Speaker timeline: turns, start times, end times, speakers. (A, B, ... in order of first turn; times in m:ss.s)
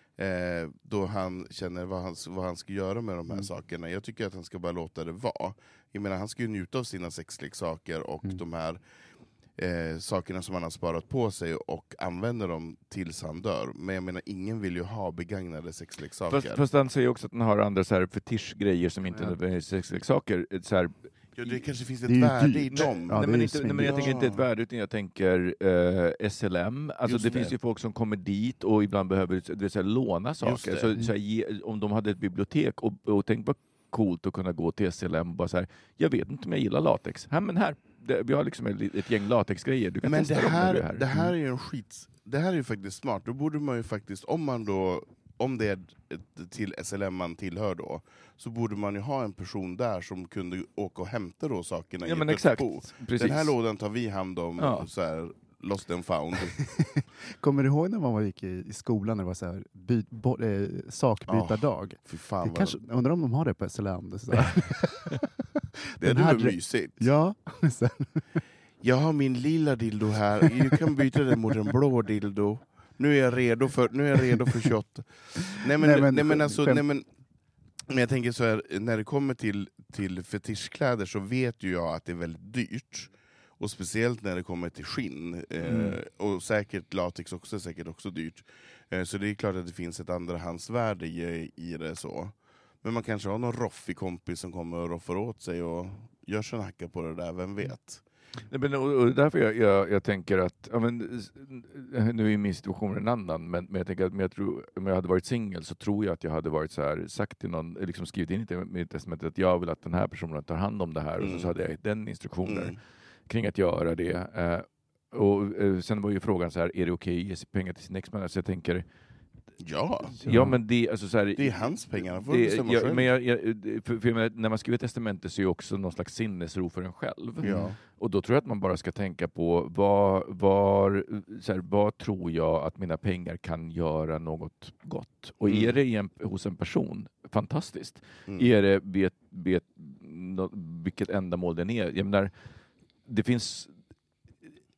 0:00.2-0:08.8 A
0:09.6-0:16.6 A
0:16.3-0:20.9 B
0:21.4-0:24.4 A
0:22.1-0:24.1 C
0:23.1-0:41.3 B
0:27.1-0:27.5 A
0:30.4-0:30.9 A
0:40.0-0:56.6 A
0:52.0-0:53.5 B
0:54.6-0:54.9 B
0:56.6-1:08.4 C
1:01.3-1:02.8 A
1:06.0-1:07.1 A
1:08.8-1:17.0 A
1:15.7-1:16.8 C
1:17.9-1:38.0 A
1:25.6-1:26.0 B
1:38.5-1:52.8 B
1:51.2-1:51.5 A
1:52.5-1:52.8 A
1:53.3-1:58.8 B
1:59.6-2:00.2 A
2:00.2-2:22.3 B
2:00.2-2:00.6 C
2:01.4-2:03.1 A
2:07.4-2:07.8 A
2:15.4-2:15.7 A
2:23.1-2:23.7 B